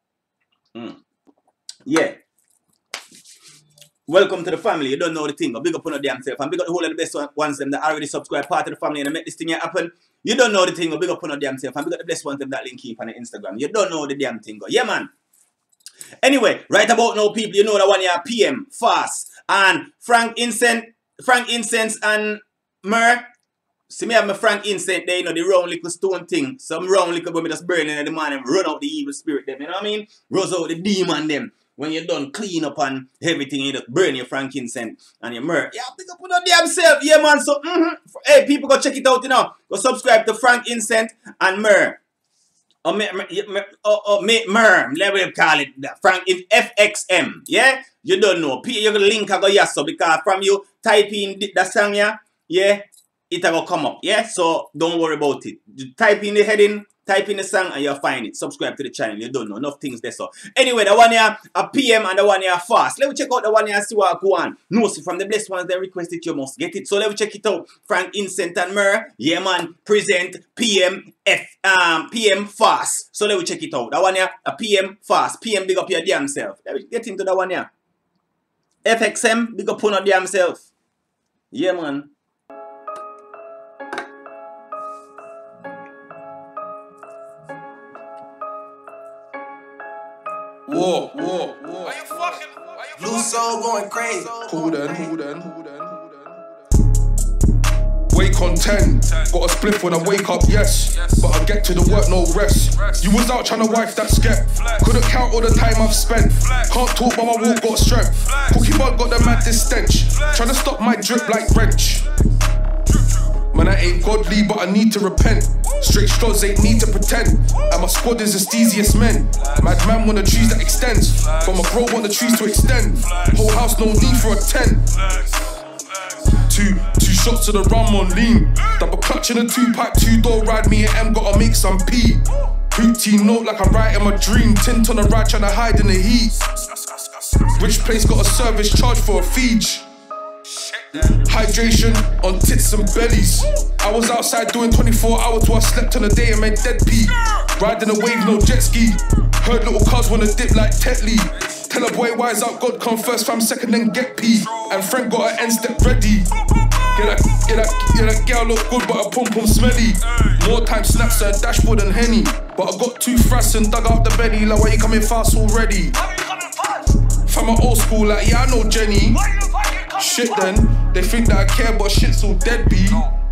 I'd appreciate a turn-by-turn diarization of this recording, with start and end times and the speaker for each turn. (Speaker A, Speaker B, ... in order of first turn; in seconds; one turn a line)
Speaker A: 0.7-1.0
Speaker A: 1.9-2.2
Speaker A: 4.1-15.1
Speaker A: 16.2-23.3
Speaker A: 23.9-42.0
Speaker A: 42.8-77.7
Speaker A: 78.8-80.7
Speaker A: 81.5-82.1
Speaker B: 90.7-92.0
Speaker C: 91.8-93.5
Speaker D: 93.0-95.1
Speaker B: 94.4-96.0
Speaker B: 98.1-112.1
Speaker C: 100.9-101.2
Speaker C: 102.8-103.1
Speaker C: 104.5-105.0
Speaker C: 106.4-106.7
Speaker C: 107.3-109.5
Speaker C: 110.1-110.5
Speaker C: 112.9-113.4
Speaker B: 113.5-124.8
Speaker C: 119.4-119.7
Speaker C: 120.5-123.5
Speaker C: 125.0-126.4
Speaker B: 126.4-136.4
Speaker C: 136.4-137.7
Speaker B: 137.6-139.8
Speaker C: 140.5-141.3
Speaker B: 141.2-156.3
Speaker C: 151.4-151.7
Speaker C: 154.4-154.9
Speaker C: 156.5-156.9
Speaker B: 156.9-166.0
Speaker C: 160.1-161.3
Speaker C: 166.1-166.9
Speaker B: 167.3-169.3
Speaker C: 169.5-169.9
Speaker B: 170.0-173.1